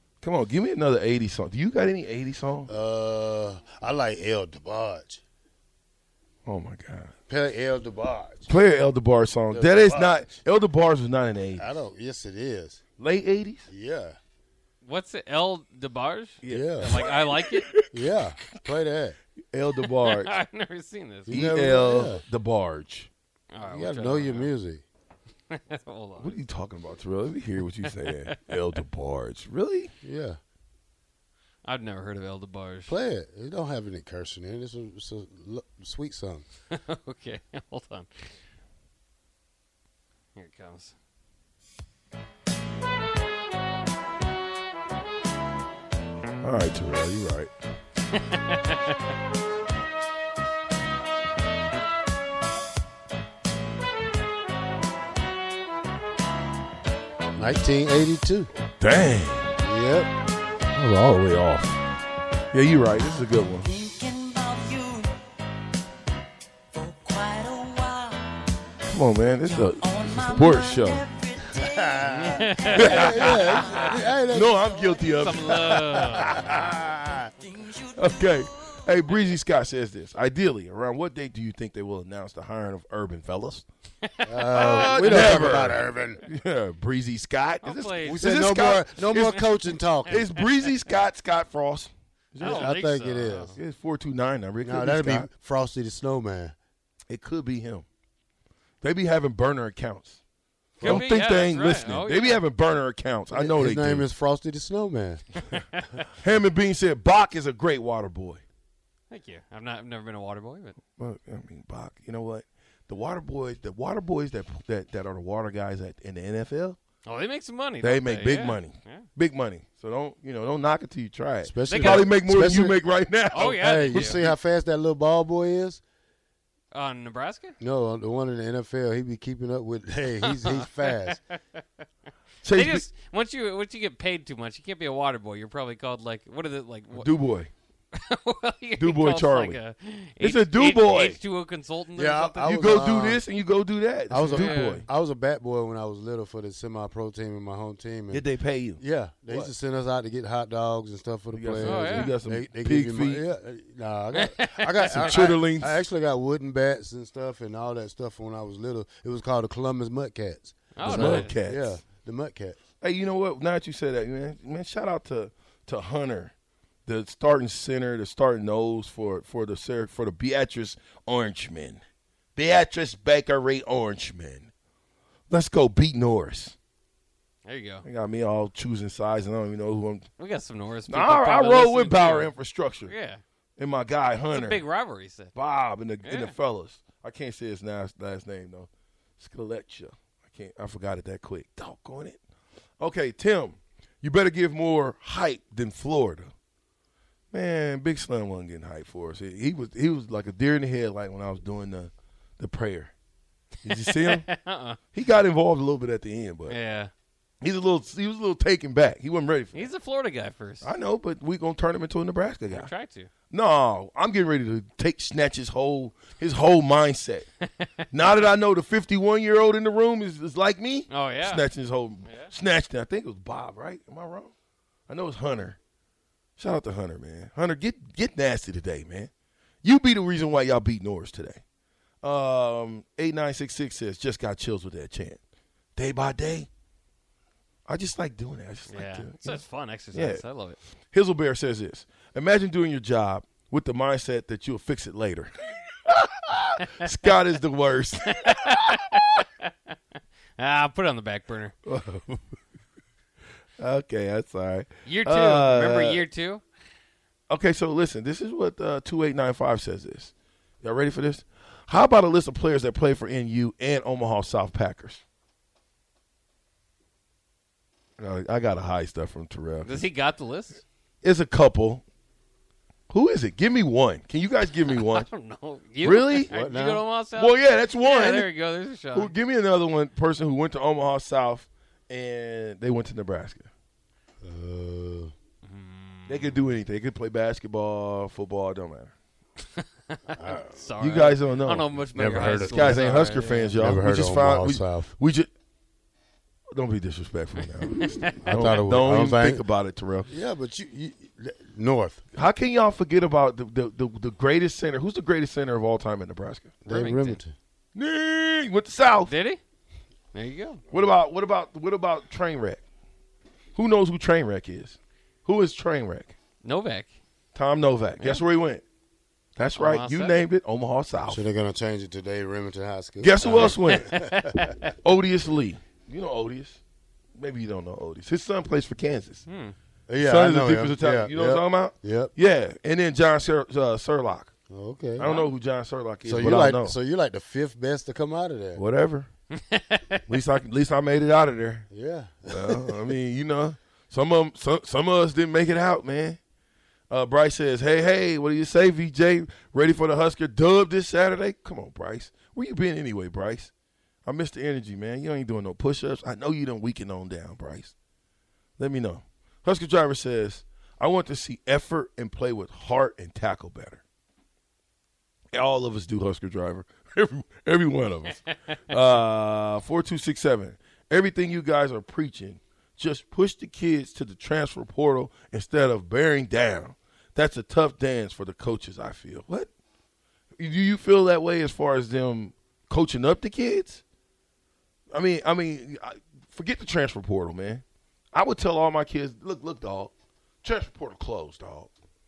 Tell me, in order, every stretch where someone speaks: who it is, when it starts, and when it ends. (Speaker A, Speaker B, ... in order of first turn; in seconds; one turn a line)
Speaker A: 0.2-2.7
Speaker B: 2.7-5.2
Speaker A: 6.5-7.1
Speaker B: 7.3-8.5
Speaker A: 8.5-11.7
Speaker B: 9.5-10.3
Speaker B: 11.6-12.8
Speaker A: 13.0-13.7
Speaker B: 13.7-14.2
Speaker C: 14.8-17.7
Speaker A: 16.4-17.9
Speaker B: 16.5-17.0
Speaker B: 17.9-19.2
Speaker A: 19.5-20.4
Speaker C: 19.9-21.4
Speaker B: 21.3-22.2
Speaker A: 21.3-23.1
Speaker C: 23.5-24.5
Speaker B: 23.7-24.8
Speaker C: 25.5-26.4
Speaker A: 26.2-29.9
Speaker C: 27.9-28.5
Speaker B: 30.0-30.4
Speaker C: 31.6-32.9
Speaker B: 32.9-36.5
Speaker C: 36.7-38.3
Speaker C: 40.4-41.0
Speaker A: 46.4-47.5
Speaker C: 48.1-48.9
Speaker B: 57.4-58.5
Speaker A: 58.8-59.5
Speaker B: 59.6-60.1
Speaker A: 60.7-61.8
Speaker A: 62.5-63.7
Speaker D: 63.9-65.1
Speaker D: 66.8-68.2
Speaker A: 68.8-71.1
Speaker B: 71.6-75.2
Speaker C: 72.1-73.5
Speaker A: 72.7-76.5
Speaker C: 75.2-76.4
Speaker B: 76.0-77.3
Speaker A: 77.9-83.7
Speaker C: 84.0-85.5
Speaker B: 84.3-86.2
Speaker A: 84.6-89.4
Speaker C: 87.6-88.2
Speaker B: 88.1-90.2
Speaker A: 90.1-92.7
Speaker C: 90.1-90.4
Speaker C: 92.4-93.6
Speaker B: 92.4-93.6
Speaker A: 93.5-95.3
Speaker B: 94.6-96.5
Speaker A: 97.1-97.9
Speaker A: 98.8-100.2
Speaker B: 100.8-101.1
Speaker C: 100.8-102.4
Speaker A: 100.8-104.1
Speaker B: 103.3-105.2
Speaker A: 106.1-108.4
Speaker C: 109.1-110.8
Speaker A: 111.0-116.8
Speaker C: 117.0-119.1
Speaker A: 117.8-124.4
Speaker B: 121.4-125.8
Speaker C: 121.7-122.1
Speaker C: 123.3-124.2
Speaker C: 126.7-127.6
Speaker B: 127.6-131.2
Speaker C: 130.2-130.7
Speaker A: 132.4-132.9
Speaker C: 132.5-137.2
Speaker A: 136.9-137.5
Speaker C: 137.9-143.1
Speaker A: 138.8-139.6
Speaker A: 140.2-141.2
Speaker B: 141.9-143.2
Speaker A: 142.5-144.9
Speaker B: 144.1-148.2
Speaker C: 144.3-144.9
Speaker A: 148.1-149.5
Speaker B: 148.8-162.6
Speaker A: 151.3-153.2
Speaker C: 151.6-152.1
Speaker C: 154.1-155.1
Speaker A: 154.8-155.8
Speaker C: 160.7-161.4
Speaker A: 160.8-161.8
Speaker A: 162.8-166.3
Speaker A: 166.9-171.8
Speaker A: 172.4-174.5
Speaker A: 175.3-176.6
Speaker C: 177.4-177.8
Speaker A: 177.8-180.1
Speaker C: 180.2-182.3
Speaker A: 180.9-182.9
Speaker C: 182.9-183.2
Speaker A: 183.6-184.6
Speaker C: 184.3-185.3
Speaker A: 185.3-192.2
Speaker C: 186.0-186.4
Speaker A: 192.8-196.3
Speaker A: 197.3-202.9
Speaker A: 203.6-204.3
Speaker C: 203.8-204.8
Speaker A: 204.9-206.6
Speaker C: 206.5-206.9
Speaker A: 207.4-209.7
Speaker C: 209.5-210.7
Speaker A: 210.6-212.7
Speaker C: 212.5-213.1
Speaker A: 213.3-217.3
Speaker A: 217.9-224.3
Speaker C: 220.9-221.5
Speaker C: 222.1-222.3
Speaker A: 224.9-225.6
Speaker A: 226.4-229.1
Speaker A: 229.6-231.4
Speaker A: 232.0-235.2
Speaker A: 235.8-236.5
Speaker A: 237.7-240.2
Speaker C: 238.7-240.6
Speaker A: 240.9-245.3
Speaker A: 245.9-248.8
Speaker C: 248.1-249.5
Speaker C: 250.4-251.5
Speaker A: 251.7-252.4
Speaker A: 253.6-256.0
Speaker C: 254.9-256.4
Speaker A: 257.3-265.0
Speaker A: 268.0-269.9
Speaker C: 269.6-270.6
Speaker A: 271.0-271.8
Speaker A: 272.9-275.1
Speaker C: 274.7-279.1
Speaker A: 275.8-276.3
Speaker B: 276.3-276.8
Speaker A: 277.2-278.3
Speaker A: 278.9-283.5
Speaker B: 284.2-285.1
Speaker C: 285.4-286.4
Speaker A: 286.1-288.9
Speaker C: 289.6-293.7
Speaker B: 290.1-290.6
Speaker A: 290.8-295.3
Speaker B: 291.9-292.9
Speaker B: 293.6-294.9
Speaker A: 296.5-300.1
Speaker C: 297.7-298.6
Speaker B: 298.3-299.4
Speaker B: 300.1-302.0
Speaker A: 302.1-306.6
Speaker B: 306.6-307.4
Speaker C: 306.7-307.2
Speaker A: 307.8-309.1
Speaker C: 309.0-309.4
Speaker C: 310.1-310.6
Speaker A: 310.7-312.6
Speaker A: 313.6-316.1
Speaker C: 316.4-316.9
Speaker A: 317.4-318.6
Speaker C: 318.0-318.2
Speaker A: 319.4-321.2
Speaker C: 319.6-320.2
Speaker B: 321.0-324.5
Speaker A: 323.0-323.9
Speaker C: 323.5-324.7
Speaker A: 324.8-326.6
Speaker A: 327.2-329.3
Speaker C: 329.3-329.6
Speaker B: 329.9-332.1
Speaker A: 330.0-334.3
Speaker B: 334.5-335.1
Speaker A: 335.0-336.8
Speaker C: 335.0-335.3
Speaker B: 336.0-338.6
Speaker A: 338.6-339.1
Speaker C: 339.5-340.0
Speaker A: 340.1-341.7
Speaker B: 341.7-342.9
Speaker A: 342.3-346.2
Speaker A: 346.9-353.5
Speaker A: 354.1-357.7
Speaker A: 358.6-363.8
Speaker A: 365.3-379.5
Speaker A: 380.4-383.8
Speaker A: 384.9-387.6
Speaker A: 388.1-389.9
Speaker A: 390.4-391.7